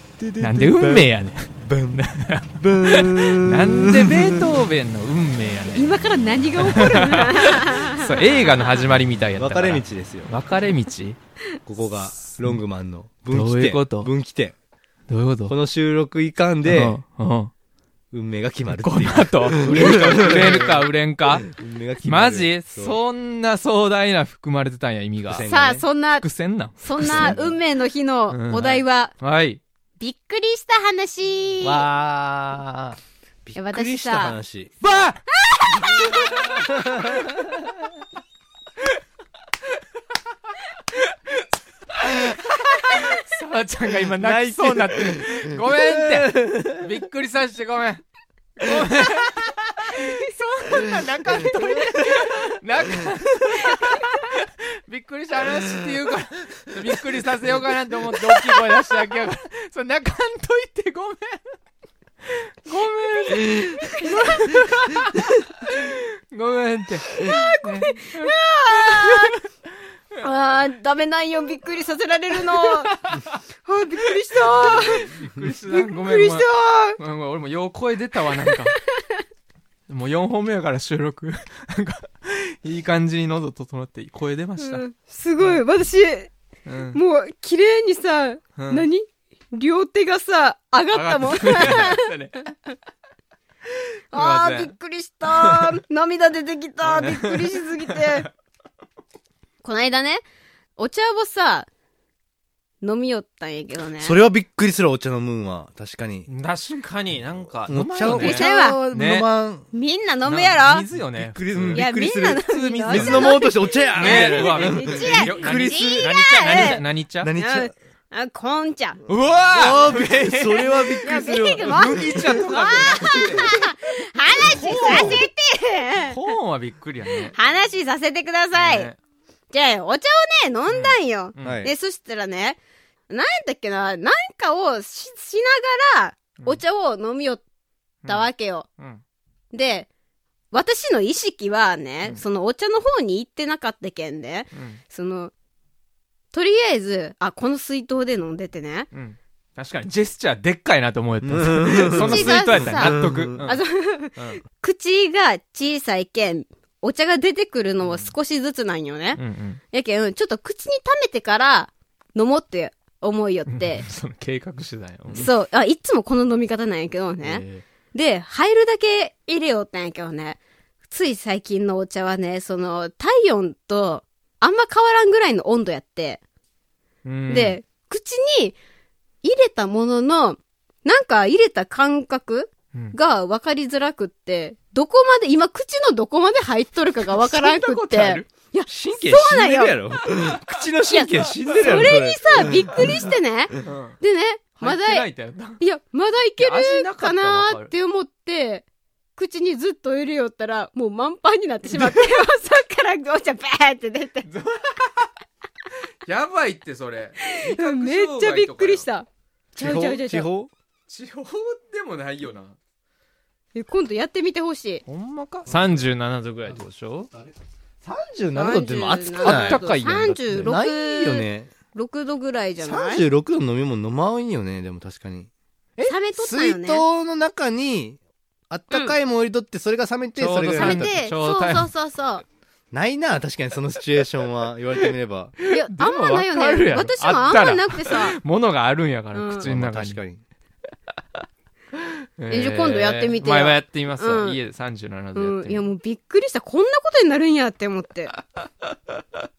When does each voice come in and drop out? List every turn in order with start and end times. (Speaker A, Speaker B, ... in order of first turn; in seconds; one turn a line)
Speaker A: 0.2-1.1
Speaker B: 0.4-5.9
Speaker A: 1.6-4.5
Speaker C: 5.7-8.7
Speaker B: 6.6-11.2
Speaker A: 9.3-10.3
Speaker A: 11.7-14.6
Speaker B: 11.9-12.6
Speaker B: 13.3-14.1
Speaker B: 15.1-15.5
Speaker A: 15.5-17.0
Speaker B: 16.6-17.5
Speaker A: 18.1-23.0
Speaker B: 18.7-21.5
Speaker B: 22.0-25.5
Speaker A: 25.2-25.8
Speaker C: 25.5-26.3
Speaker B: 26.2-27.4
Speaker C: 26.8-29.1
Speaker A: 26.9-27.6
Speaker B: 28.3-29.6
Speaker C: 30.0-31.8
Speaker A: 31.6-34.7
Speaker C: 33.5-34.4
Speaker B: 34.8-36.6
Speaker C: 35.5-36.3
Speaker A: 36.2-37.5
Speaker B: 42.0-48.0
Speaker A: 44.0-46.9
Speaker B: 48.6-61.5
Speaker A: 51.3-52.4
Speaker C: 53.8-54.1
Speaker B: 62.3-69.4
Speaker C: 63.7-64.6
Speaker C: 67.2-69.3
Speaker C: 70.2-72.9
Speaker B: 72.4-73.4
Speaker C: 73.6-75.2
Speaker B: 74.3-76.5
Speaker C: 75.7-77.0
Speaker B: 77.0-78.8
Speaker B: 79.9-84.8
Speaker C: 84.6-86.3
Speaker B: 85.4-85.6
Speaker B: 86.7-87.0
Speaker C: 86.9-92.1
Speaker B: 88.6-88.8
Speaker B: 90.9-92.5
Speaker C: 94.1-98.3
Speaker B: 94.1-94.7
Speaker B: 95.3-95.7
Speaker B: 96.9-98.3
Speaker C: 99.6-100.2
Speaker C: 100.8-101.7
Speaker C: 102.8-104.2
Speaker A: 104.0-106.3
Speaker B: 106.3-109.2
Speaker A: 107.7-109.7
Speaker C: 108.0-108.8
Speaker C: 109.7-110.9
Speaker B: 110.2-111.8
Speaker A: 111.0-116.2
Speaker C: 111.7-119.0
Speaker B: 112.5-113.4
Speaker B: 113.9-117.3
Speaker A: 117.2-117.7
Speaker B: 119.1-123.7
Speaker A: 119.5-123.4
Speaker C: 120.6-126.2
Speaker B: 124.4-125.3
Speaker B: 126.0-127.3
Speaker C: 127.1-128.9
Speaker B: 128.5-129.0
Speaker C: 129.5-132.6
Speaker B: 130.7-131.7
Speaker A: 131.4-131.7
Speaker C: 133.1-137.4
Speaker B: 138.0-139.0
Speaker C: 138.0-138.7
Speaker C: 139.5-139.9
Speaker C: 140.5-145.3
Speaker B: 144.5-144.8
Speaker C: 146.3-148.9
Speaker B: 148.9-153.6
Speaker A: 151.2-153.5
Speaker C: 151.9-159.2
Speaker B: 154.1-154.4
Speaker B: 157.8-158.1
Speaker B: 159.2-159.6
Speaker C: 159.7-163.8
Speaker B: 163.5-165.3
Speaker C: 165.1-176.2
Speaker B: 167.2-167.6
Speaker B: 177.0-177.6
Speaker C: 177.3-178.6
Speaker C: 179.2-189.9
Speaker B: 187.1-188.3
Speaker A: 188.7-193.0
Speaker C: 190.9-198.6
Speaker B: 191.4-191.8
Speaker B: 193.6-194.0
Speaker B: 194.6-195.6
Speaker B: 196.4-197.7
Speaker C: 199.2-204.3
Speaker B: 204.2-205.1
Speaker B: 206.0-208.9
Speaker C: 207.2-210.3
Speaker A: 209.6-210.5
Speaker B: 210.9-212.6
Speaker C: 213.5-214.8
Speaker B: 214.9-217.1
Speaker A: 217.8-219.7
Speaker C: 218.3-223.0
Speaker B: 219.2-220.5
Speaker A: 220.3-221.5
Speaker A: 222.6-228.0
Speaker C: 225.8-226.8
Speaker A: 228.5-230.9
Speaker B: 230.2-231.7
Speaker C: 230.4-232.2
Speaker A: 232.7-235.3
Speaker B: 235.4-240.0
Speaker C: 235.4-238.2
Speaker C: 239.1-239.5
Speaker A: 239.4-240.2
Speaker B: 242.2-245.6
Speaker C: 242.3-244.4
Speaker C: 245.1-248.1